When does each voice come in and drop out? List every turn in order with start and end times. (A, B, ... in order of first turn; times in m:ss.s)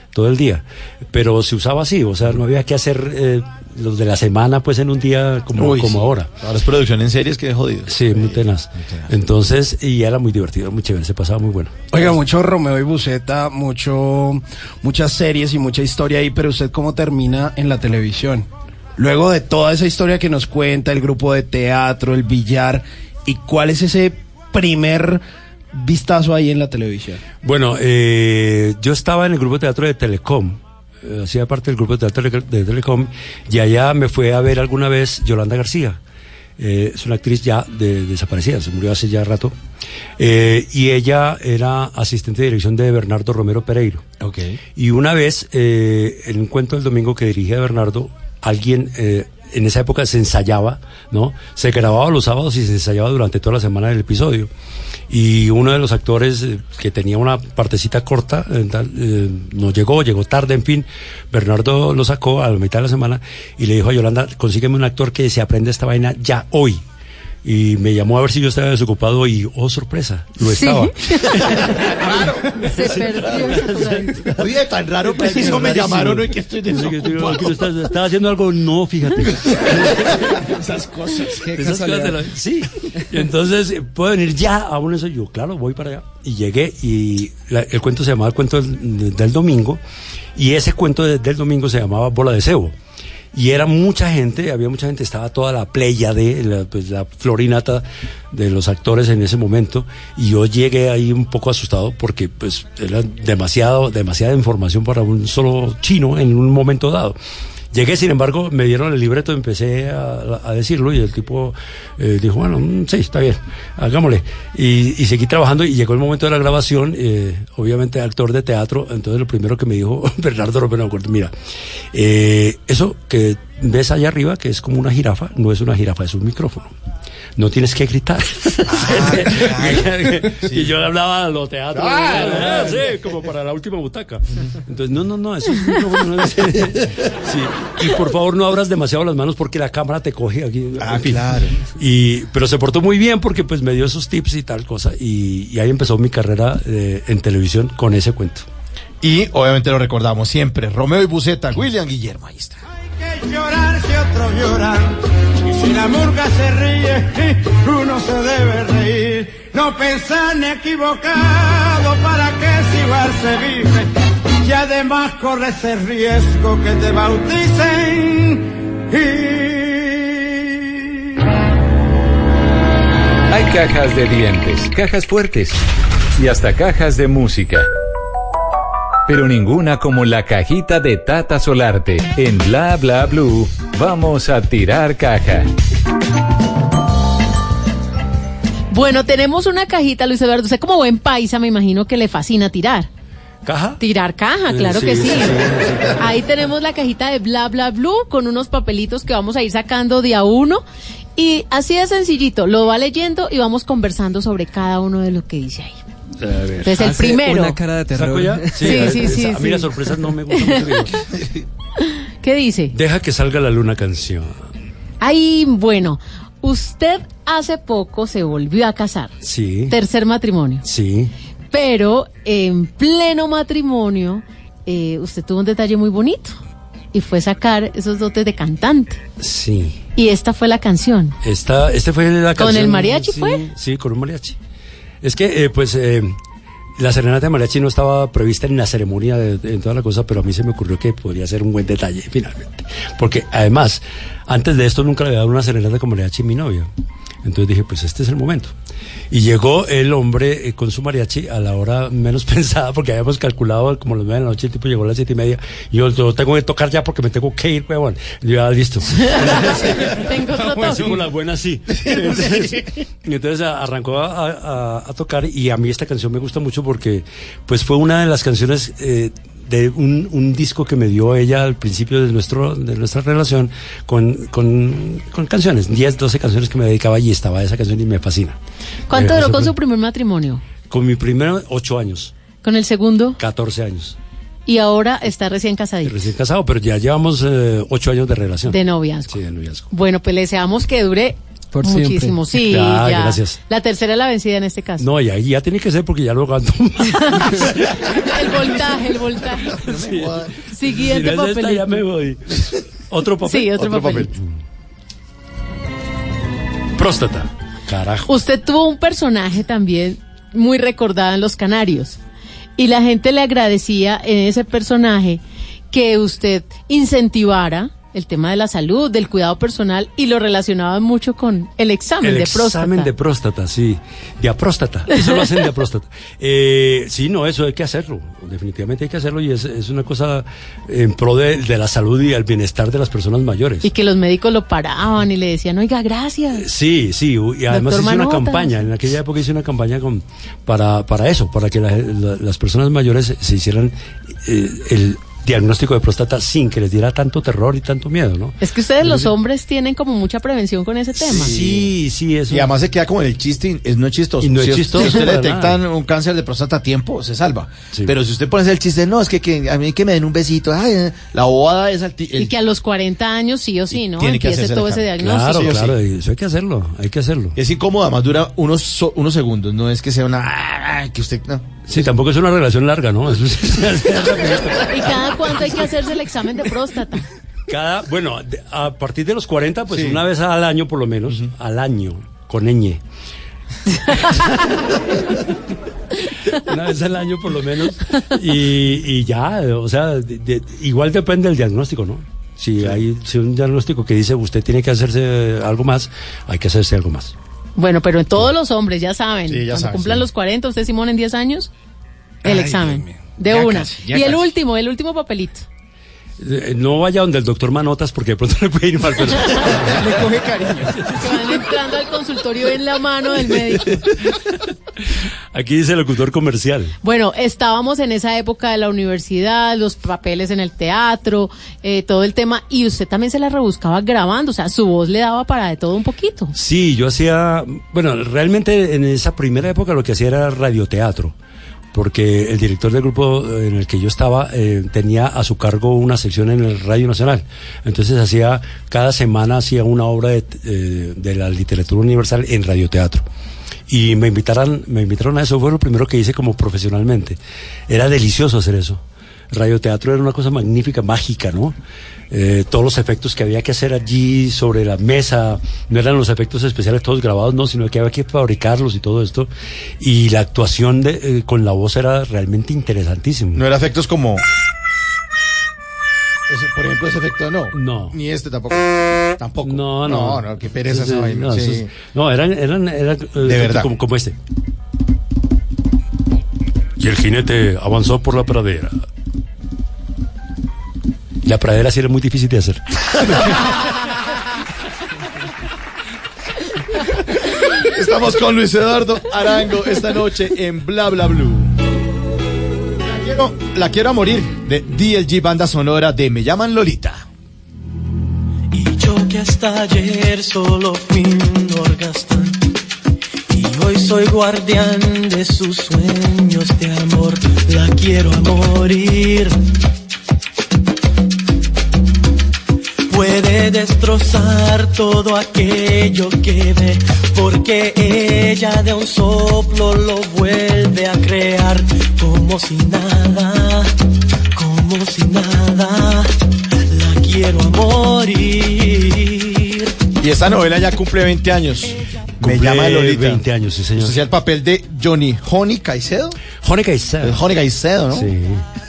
0:00.1-0:06.4 A
0:05.6-0:09.1 B
0:07.9-0:12.2 A
0:11.9-0:25.2 C
0:25.7-0:27.2 C
0:27.4-0:36.0 A
0:36.6-0:39.6 A
0:40.2-0:44.0 A
0:44.2-0:44.6 B
0:44.8-0:54.5 A
0:55.1-1:06.8 A
1:07.4-1:12.2 A
1:10.5-1:11.4 D
1:12.0-1:12.5 B
1:12.6-1:14.2 D
1:12.8-1:14.4 A
1:14.4-1:17.7 B
1:15.2-1:20.4 A
1:20.1-1:21.5 B
1:21.6-1:29.8 A
1:21.6-1:22.2 E
1:30.4-1:32.7 A
1:33.3-1:47.2 A
1:47.7-2:01.3 A
2:01.9-2:06.8 A
2:07.4-2:28.5 A
2:08.8-2:09.9 B
2:10.4-2:10.7 B
2:11.8-2:12.8 B
2:20.8-2:21.4 B
2:29.0-2:32.6 B
2:32.9-2:50.8 F
2:53.3-2:55.6 G
2:56.2-2:57.7 G
2:59.1-3:05.5 G
3:08.7-3:12.9 D
3:13.4-3:13.8 A
3:13.8-3:15.4 D
3:14.5-3:16.1 A
3:16.0-3:20.6 D
3:21.2-3:25.8 D
3:26.2-3:26.7 A
3:26.6-3:27.6 D
3:26.7-3:29.2 E
3:27.9-3:31.0 A
3:28.6-3:29.7 D
3:30.3-3:30.8 D
3:32.2-3:32.7 D
3:32.7-3:34.4 A
3:35.0-3:39.1 D
3:39.2-3:39.8 A
3:39.7-3:40.6 D
3:40.6-3:41.1 A
3:41.5-3:46.4 D
3:46.9-3:49.0 D
3:49.2-3:49.8 A
3:50.0-3:51.2 D
3:51.2-3:54.4 A
3:52.4-3:53.4 D
3:55.0-3:56.2 A
3:56.8-4:06.7 A
4:07.2-4:08.5 A
4:09.1-4:20.1 A
4:19.3-4:20.9 D
4:19.6-4:21.0 C
4:20.6-4:38.4 A
4:22.2-4:22.6 C
4:38.9-4:40.4 D
4:38.9-4:39.5 A
4:40.7-4:42.1 A
4:42.4-4:43.2 D
4:43.2-4:44.0 A
4:44.5-4:46.0 D
4:45.8-4:49.7 A
4:48.5-4:49.2 D
4:49.7-4:54.9 D
4:51.5-4:52.2 E
4:52.4-4:53.4 A
4:54.8-4:57.8 A
4:56.9-4:57.4 D
4:58.0-4:59.6 D
4:59.5-5:00.3 B
4:59.6-5:04.0 A
5:00.5-5:01.8 D
5:03.2-5:04.1 D
5:03.6-5:04.1 B
5:06.8-5:08.1 A
5:08.1-5:12.0 D
5:12.6-5:22.9 D
5:22.0-5:33.7 A
5:33.6-5:36.5 D
5:36.4-5:49.1 A
5:37.5-5:38.5 D
5:48.4-5:51.4 D
5:51.0-5:51.7 B
5:51.2-5:52.5 A
5:52.3-6:02.3 B
5:54.2-5:55.6 A
6:02.2-6:05.5 D
6:03.7-6:05.8 B
6:05.0-6:07.4 A
6:07.4-6:11.5 B
6:11.7-6:15.6 A
6:14.7-6:17.0 D
6:17.5-6:22.8 A
6:19.7-6:20.0 B
6:23.9-6:24.3 A
6:26.3-6:37.1 A
6:37.6-6:41.5 D
6:39.3-6:40.0 B
6:42.2-6:45.5 D
6:42.2-6:44.2 C
6:46.2-6:50.0 A
6:49.8-6:50.9 C
6:51.0-6:53.9 D
6:55.3-6:56.7 A
6:56.8-7:06.3 D
7:06.3-7:11.2 A
7:11.7-7:23.0 A
7:23.7-7:31.6 A
7:32.1-7:43.4 A
7:43.4-7:44.2 B
7:46.3-7:51.7 B
7:47.5-7:48.0 A
7:49.4-7:54.2 A
7:53.2-7:53.7 B
7:56.8-7:58.8 A
8:01.2-8:02.6 A
8:03.0-8:03.3 B
8:07.5-8:11.5 B
8:12.9-8:17.0 B
8:18.5-8:22.4 H
8:23.3-8:29.4 H
8:32.9-8:43.7 H
8:44.4-8:46.1 H
8:46.7-8:49.7 H
8:50.0-8:53.2 B
8:52.2-8:54.0 A
8:53.8-8:56.2 B
8:56.4-8:57.2 A
8:57.0-8:58.1 B
8:57.9-8:58.4 A